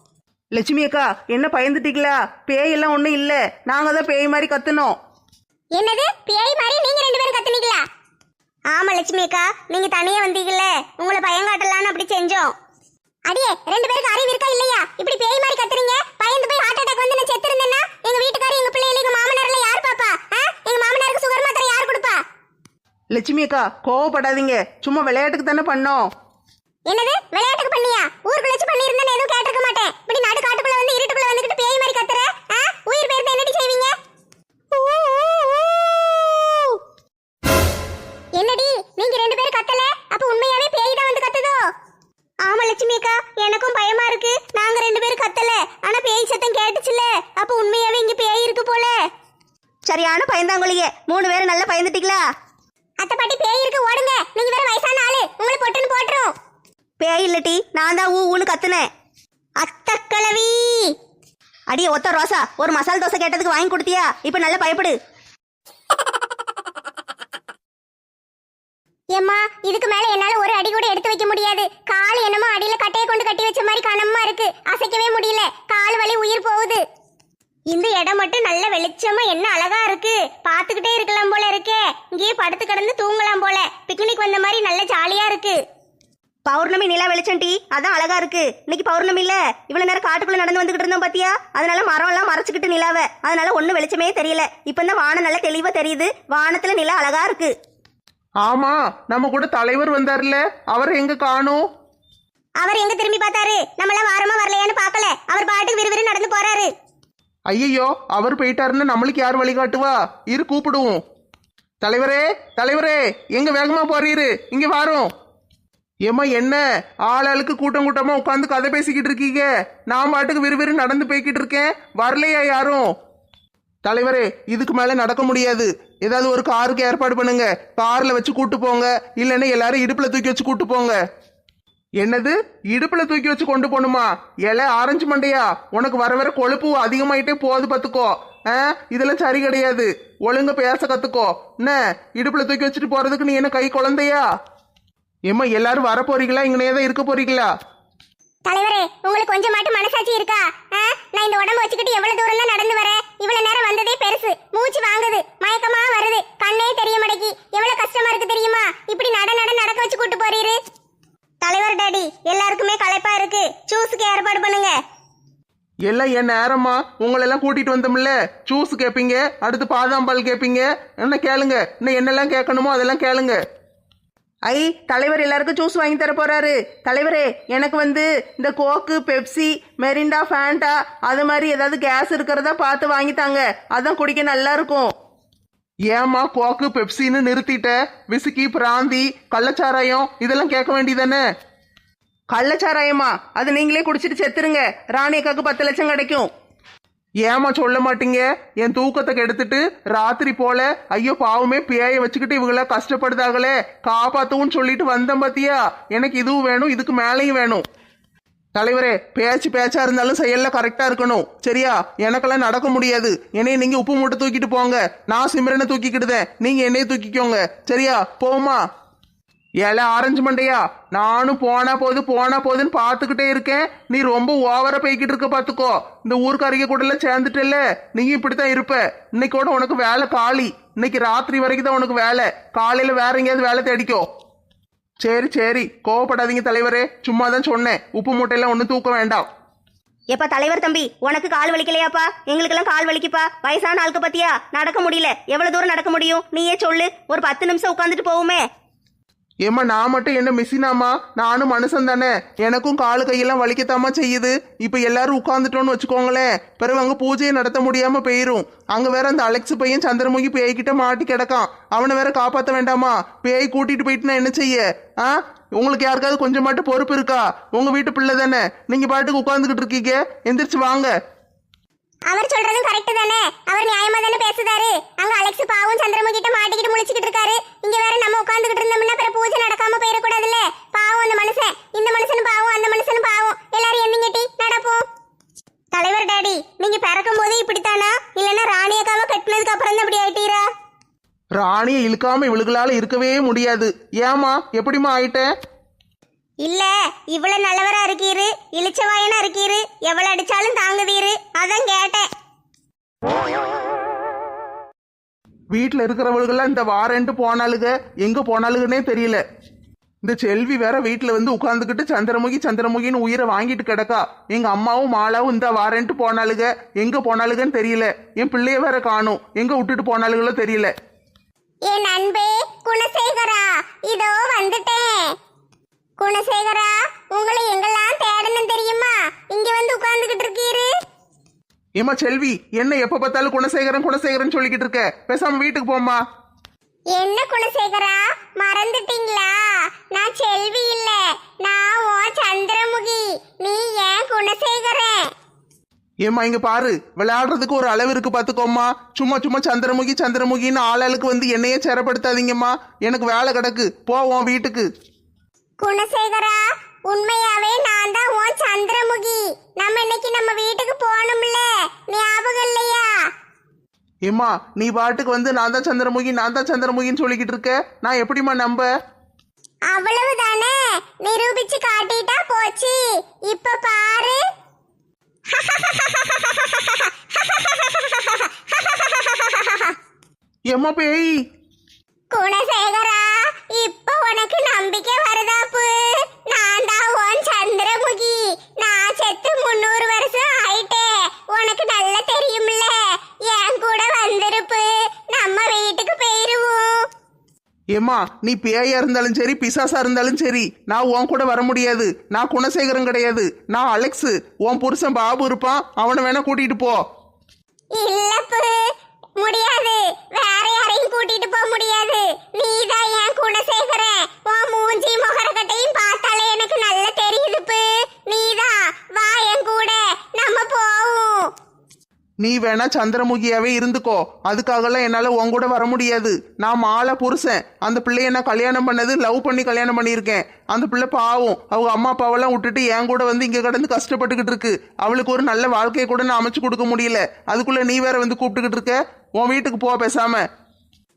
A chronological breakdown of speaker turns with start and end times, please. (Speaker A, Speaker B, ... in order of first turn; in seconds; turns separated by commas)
Speaker A: 0.5-4.9, Speaker B: 5.7-7.8, Speaker B: 8.7-12.5, Speaker B: 13.3-22.2, Speaker A: 23.1-26.1, Speaker B: 26.9-33.9, Speaker B: 34.7-36.7, Speaker B: 38.4-41.6, Speaker B: 42.4-49.0, Speaker C: 49.9-52.2, Speaker B: 53.0-56.3, Speaker C: 57.0-58.9, Speaker B: 59.6-60.9, Speaker C: 61.7-65.0, Speaker B: 69.1-76.8, Speaker B: 77.7-85.6, Speaker C: 86.5-97.5, Speaker A: 98.4-101.6, Speaker B: 102.6-106.7, Speaker A: 107.5-111.0, Speaker A: 111.8-115.1, Speaker A: 116.0-122.8, Speaker A: 123.8-131.0, Speaker A: 132.0-144.2, Speaker A: 145.3-147.5, Speaker B: 148.4-160.6, Speaker B: 161.4-164.8, Speaker A: 165.8-173.4, Speaker A: 174.5-184.9, Speaker A: 185.9-191.2, Speaker A: 192.3-196.3, Speaker A: 197.2-207.6, Speaker A: 208.5-218.6, Speaker A: 219.6-234.0, Speaker A: 235.0-239.3, Speaker C: 240.1-248.4, Speaker A: 249.4-270.9, Speaker B: 272.1-284.8, Speaker B: 285.7-290.4, Speaker A: 291.4-295.3, Speaker B: 296.4-302.1, Speaker A: 305.5-309.2, Speaker A: 310.0-320.7, Speaker B: 321.6-325.1, Speaker B: 326.0-330.7, Speaker A: 331.8-336.0, Speaker B: 336.9-339.4, Speaker B: 339.9-345.1, Speaker A: 346.0-354.7, Speaker B: 355.6-362.9, Speaker A: 364.1-368.7, Speaker B: 369.7-374.2, Speaker B: 375.3-379.7, Speaker A: 380.5-381.1, Speaker B: 382.1-396.9, Speaker A: 397.7-406.8, Speaker B: 407.7-408.6, Speaker B: 409.2-421.3, Speaker A: 422.2-440.2